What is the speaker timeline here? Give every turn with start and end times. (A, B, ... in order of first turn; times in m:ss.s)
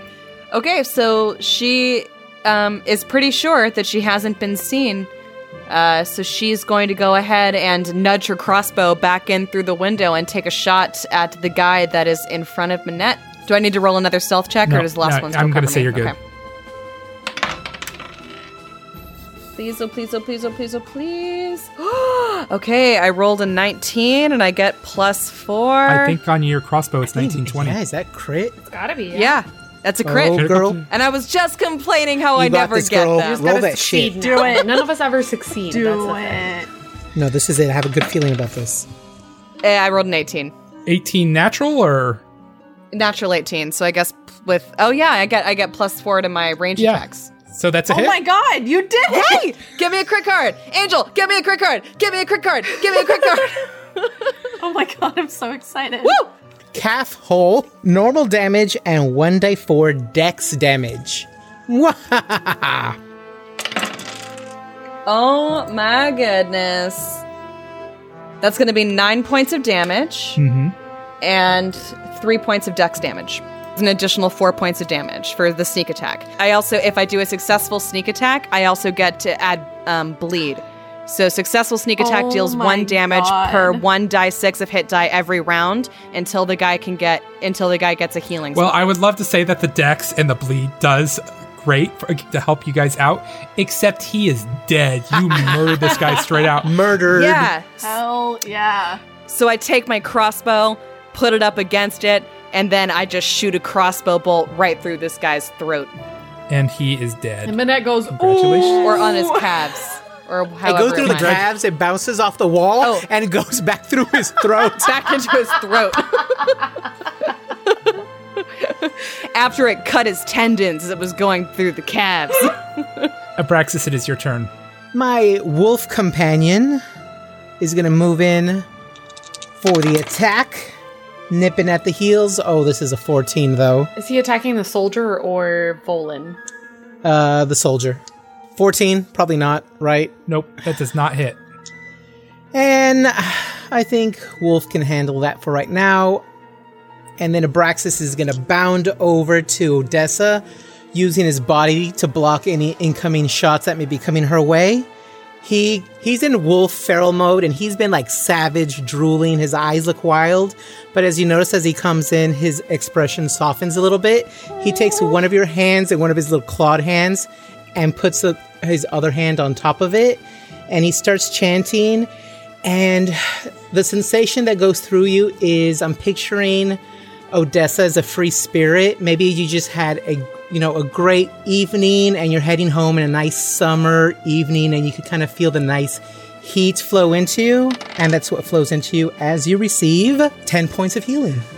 0:00.5-0:05.1 A
0:05.7-0:16.2 A
0:14.6-0:16.1 B
0:19.5-0:26.2 A
0:25.9-0:27.8 B
0:27.2-0:28.6 C
0:28.7-0:29.4 D
0:29.1-0:33.5 A
0:30.0-0:30.8 C
0:30.3-0:30.8 B
0:32.3-0:34.4 C
0:33.2-0:36.6 D
0:34.2-0:34.9 E
0:35.7-0:36.7 E
0:37.1-0:38.9 C
0:39.6-0:40.5 A
0:40.8-0:42.2 B
0:42.9-0:47.3 A
0:46.8-0:48.2 B
0:47.9-0:49.5 E
0:49.1-0:54.1 A
0:54.6-0:56.2 E
0:56.0-0:56.3 A
0:56.7-1:03.0 C
1:05.0-1:07.2 A
1:08.4-1:10.4 A
1:10.4-1:10.7 B
1:11.2-1:28.8 A
1:22.0-1:23.8 E
1:28.5-1:36.7 B
1:35.3-1:35.5 C
1:36.6-1:37.5 C
1:37.1-1:38.0 A
1:37.8-1:39.0 E
1:39.3-1:45.9 A
1:46.5-1:48.8 B
1:47.4-1:49.1 D
1:48.5-1:49.7 E
1:48.7-1:51.4 A
1:50.6-1:55.2 C
1:51.0-1:51.4 B
1:54.5-1:56.7 A
1:58.4-2:03.1 A
2:03.4-2:04.5 B
2:04.9-2:06.8 C
2:07.6-2:08.7 C
2:09.6-2:10.7 C
2:11.3-2:13.9 C
2:14.0-2:16.4 D
2:17.0-2:18.0 C
2:18.6-2:20.1 C
2:20.3-2:21.4 B
2:22.5-2:26.2 C
2:27.2-2:34.9 C
2:35.4-2:52.1 C
2:52.6-2:56.8 C
2:57.3-3:11.5 C